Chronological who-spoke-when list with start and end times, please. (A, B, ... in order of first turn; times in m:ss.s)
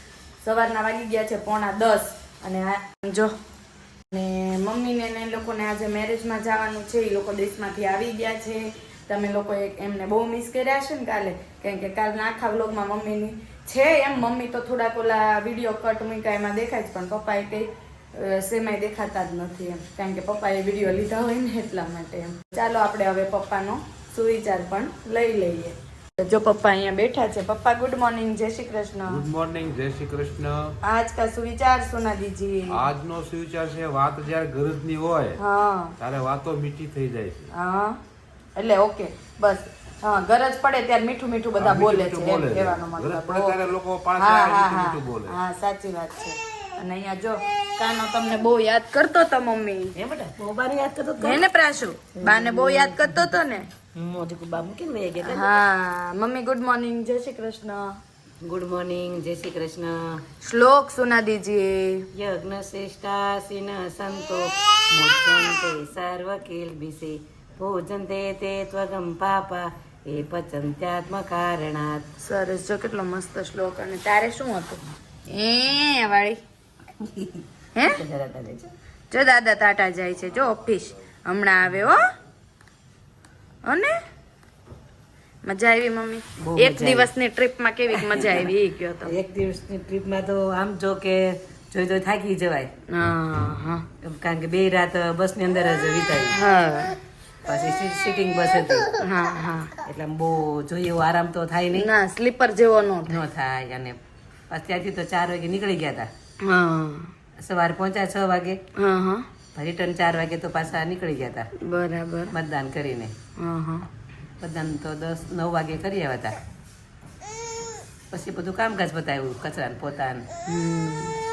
0:00.4-0:03.3 A
0:04.1-0:29.2 A
0:29.1-0:30.8 B
0:30.8-0:32.9 A
0:32.7-0:35.4 B
0:35.4-0:36.0 A
0:36.0-0:37.5 B
0:37.5-0:38.0 A
0:38.6-0:49.9 A
0:41.6-0:45.4 B
0:50.0-0:51.4 C
0:51.2-0:53.7 A
0:52.2-0:53.4 C
0:54.0-0:55.5 C
0:55.2-0:58.0 A
0:58.4-1:00.2 C
1:00.4-1:02.0 A
1:02.1-1:12.0 C
1:12.2-1:16.4 A
1:17.0-1:18.7 C
1:19.1-1:22.0 A
1:23.6-1:24.0 A
1:25.4-1:29.2 A
1:26.4-1:27.1 C
1:28.0-1:28.5 C
1:29.0-1:32.7 C
1:32.9-1:33.8 A
1:34.0-1:36.4 C
1:36.3-1:37.0 A
1:37.4-1:38.9 C
1:39.0-1:39.7 A
1:39.8-1:41.9 C
1:41.7-1:43.2 A
1:43.1-1:44.0 C
1:44.5-1:46.1 C
1:46.4-1:47.1 A
1:47.4-1:48.6 C
1:48.8-1:49.3 A
1:49.6-1:51.5 C
1:51.6-1:52.3 A
1:52.3-1:53.1 C
1:53.4-1:53.9 A
1:54.4-1:56.4 C
1:58.1-2:00.3 C
2:00.5-2:01.2 A